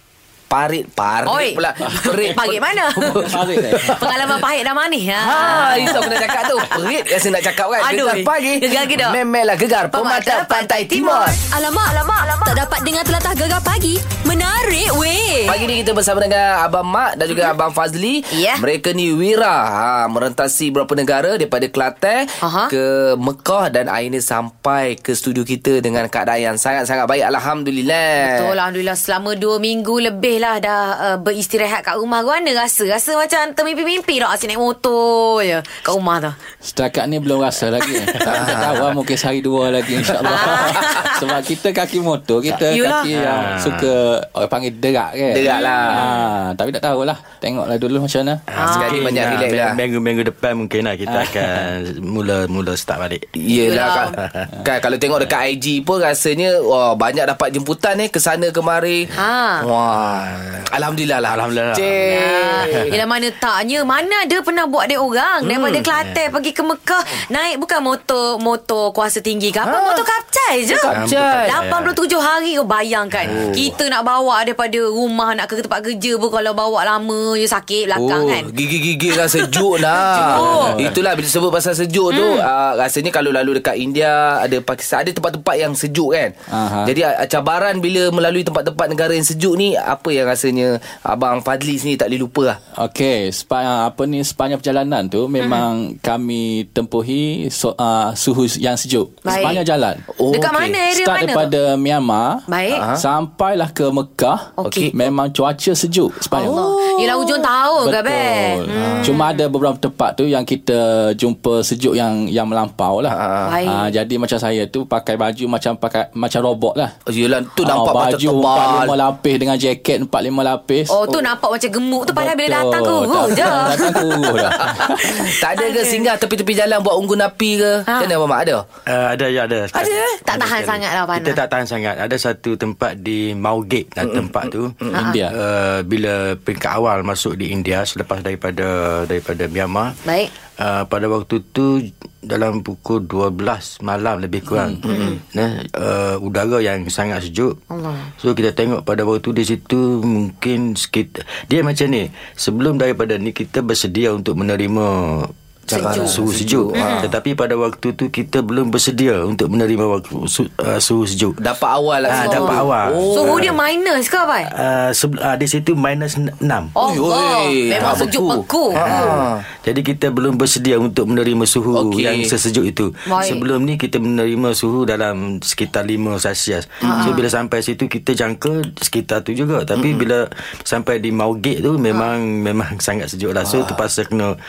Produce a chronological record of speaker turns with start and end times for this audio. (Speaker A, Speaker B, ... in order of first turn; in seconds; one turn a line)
Speaker A: 0.5-4.1
Speaker B: 1.2-6.6
Speaker C: 3.1-4.0
Speaker A: 5.2-11.4
Speaker B: 7.8-9.2
Speaker B: 9.9-12.5
Speaker D: 11.4-15.6
Speaker A: 15.5-28.5
Speaker B: 18.3-18.6
Speaker B: 22.4-22.7
Speaker B: 28.2-36.4
Speaker C: 36.6-48.5
Speaker A: 38.2-38.9
Speaker B: 40.2-41.1
Speaker A: 40.5-40.8
Speaker B: 42.7-43.1
Speaker E: 43.1-43.9
Speaker A: 45.3-46.1
Speaker B: 45.5-46.2
Speaker E: 48.5-54.5
Speaker B: 48.6-49.1
Speaker A: 48.7-49.8
Speaker C: 51.1-51.7
Speaker A: 53.4-63.0
Speaker B: 53.6-54.2
Speaker B: 59.1-59.7
Speaker E: 60.0-60.6
Speaker E: 61.2-62.1
Speaker B: 62.0-78.5
Speaker E: 62.7-63.0
Speaker A: 65.4-65.9
Speaker E: 65.9-66.3
Speaker A: 69.6-70.0
Speaker A: 70.7-71.6
Speaker E: 70.9-72.0
Speaker E: 73.1-73.7
Speaker A: 73.3-73.7
Speaker A: 78.0-92.6
Speaker B: 79.1-80.8
Speaker C: 80.1-81.0
Speaker B: 82.1-82.5
Speaker C: 86.5-86.9
Speaker C: 92.8-100.0
Speaker B: 95.4-95.7
Speaker B: 99.2-99.6
Speaker A: 99.3-99.6
Speaker A: 100.2-100.8
Speaker B: 100.3-101.5
Speaker C: 100.8-106.6
Speaker B: 102.5-102.8
Speaker A: 102.7-103.0
Speaker B: 104.6-104.9
Speaker A: 104.6-104.9
Speaker B: 106.3-109.4
Speaker A: 106.4-107.5
Speaker C: 107.8-116.9
Speaker A: 108.7-109.2
Speaker A: 113.1-113.6
Speaker B: 113.4-113.9
Speaker A: 117.1-119.0
Speaker C: 117.6-121.0
Speaker B: 120.9-124.0
Speaker C: 122.1-125.3
Speaker A: 124.5-128.6
Speaker B: 125.5-126.1
Speaker B: 127.9-128.1
Speaker E: 128.9-140.0
Speaker A: 129.8-130.0
Speaker B: 130.1-131.4
Speaker A: 134.0-135.0
Speaker B: 134.9-135.2
Speaker C: 135.0-135.3
Speaker B: 140.1-140.3
Speaker E: 140.6-147.6
Speaker C: 144.5-144.8
Speaker A: 144.8-145.2
Speaker B: 144.9-145.2
Speaker B: 147.7-148.1
Speaker E: 148.2-161.4
Speaker B: 155.7-156.2
Speaker A: 155.7-157.1
Speaker B: 156.8-157.1
Speaker A: 161.4-163.6
Speaker E: 162.0-163.6
Speaker B: 162.1-164.5
Speaker E: 164.5-166.8
Speaker B: 166.8-169.2
Speaker A: 166.8-169.4
Speaker E: 167.8-168.1
Speaker E: 168.7-184.4
Speaker A: 171.7-172.3
Speaker B: 173.1-173.4
Speaker A: 176.8-177.2
Speaker B: 176.9-177.2
Speaker A: 179.8-180.1
Speaker A: 183.4-183.8